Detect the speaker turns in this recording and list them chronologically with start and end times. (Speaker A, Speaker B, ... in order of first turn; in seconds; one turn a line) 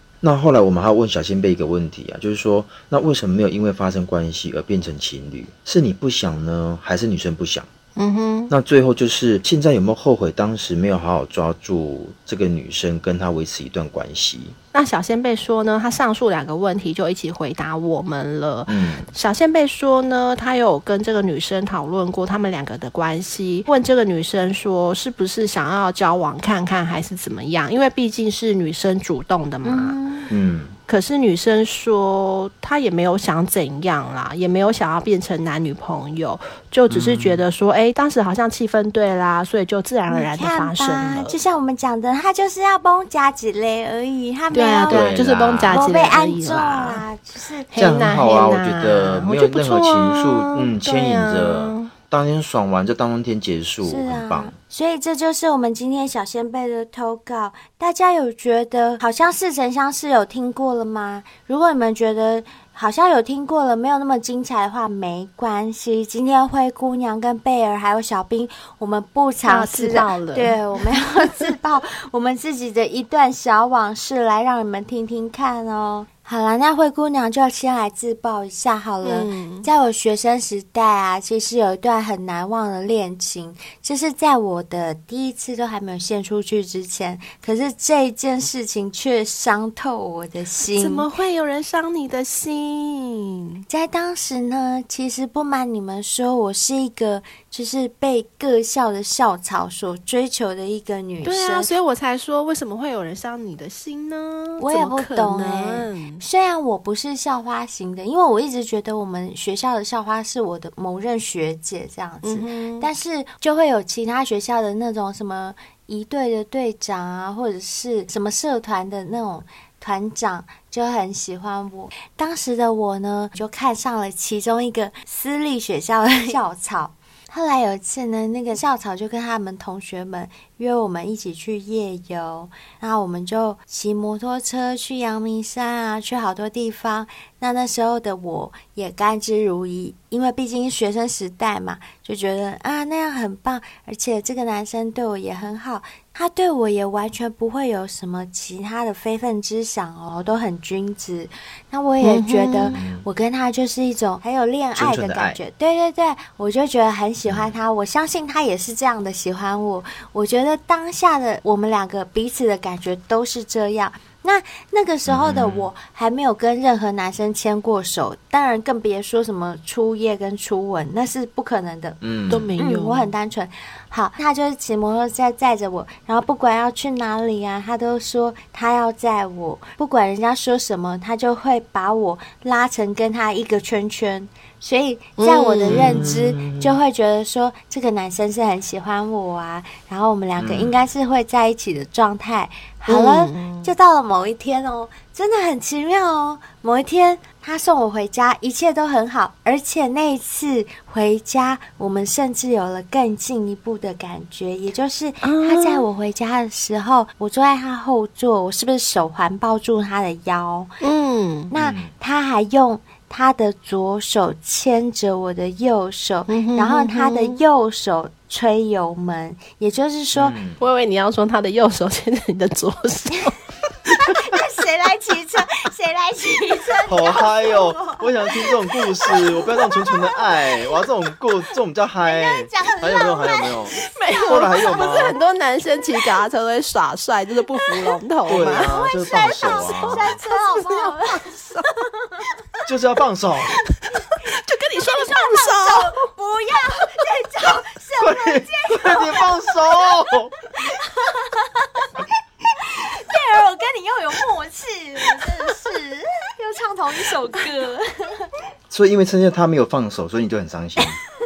Speaker A: 0.2-7.7
Speaker B: 8.0-8.5
Speaker A: 8.5-14.5
Speaker B: 14.7-30.0
Speaker A: 18.7-19.1
Speaker C: 29.6-30.3
Speaker A: 30.3-30.7
Speaker B: 30.9-41.4
Speaker A: 36.9-37.4
Speaker C: 40.1-45.1
Speaker B: 44.5-47.0
Speaker A: 44.9-45.8
Speaker C: 45.7-47.7
Speaker B: 47.7-51.9
Speaker A: 47.8-54.5
Speaker C: 53.8-91.1
Speaker B: 69.5-71.5
Speaker B: 79.0-79.7
Speaker B: 90.7-93.5
Speaker C: 93.7-101.7
Speaker B: 101.2-106.2
Speaker C: 104.6-172.0
Speaker B: 112.2-112.9
Speaker B: 152.0-152.8
Speaker A: 152.7-153.0
Speaker A: 154.7-155.4
Speaker A: 157.2-157.6
Speaker A: 165.1-165.7
Speaker A: 172.0-172.5
Speaker B: 172.3-173.1
Speaker C: 172.6-210.7
Speaker B: 185.2-186.1
Speaker A: 185.7-186.8
Speaker A: 190.4-190.8
Speaker B: 192.9-193.7
Speaker B: 205.2-205.8
Speaker B: 210.8-211.5
Speaker C: 211.5-220.4
Speaker A: 211.5-211.9
Speaker B: 216.3-217.4
Speaker A: 220.1-220.6
Speaker B: 220.6-223.3
Speaker C: 224.1-228.5
Speaker A: 226.9-235.2
Speaker C: 229.0-230.2
Speaker C: 232.0-233.6
Speaker B: 233.8-238.8
Speaker A: 238.2-240.1
Speaker C: 238.3-241.3
Speaker B: 239.4-242.3
Speaker A: 242.7-243.6
Speaker B: 243.5-246.0
Speaker C: 244.9-249.5
Speaker A: 248.0-250.3
Speaker C: 250.6-252.0
Speaker C: 252.6-258.3
Speaker A: 258.7-261.0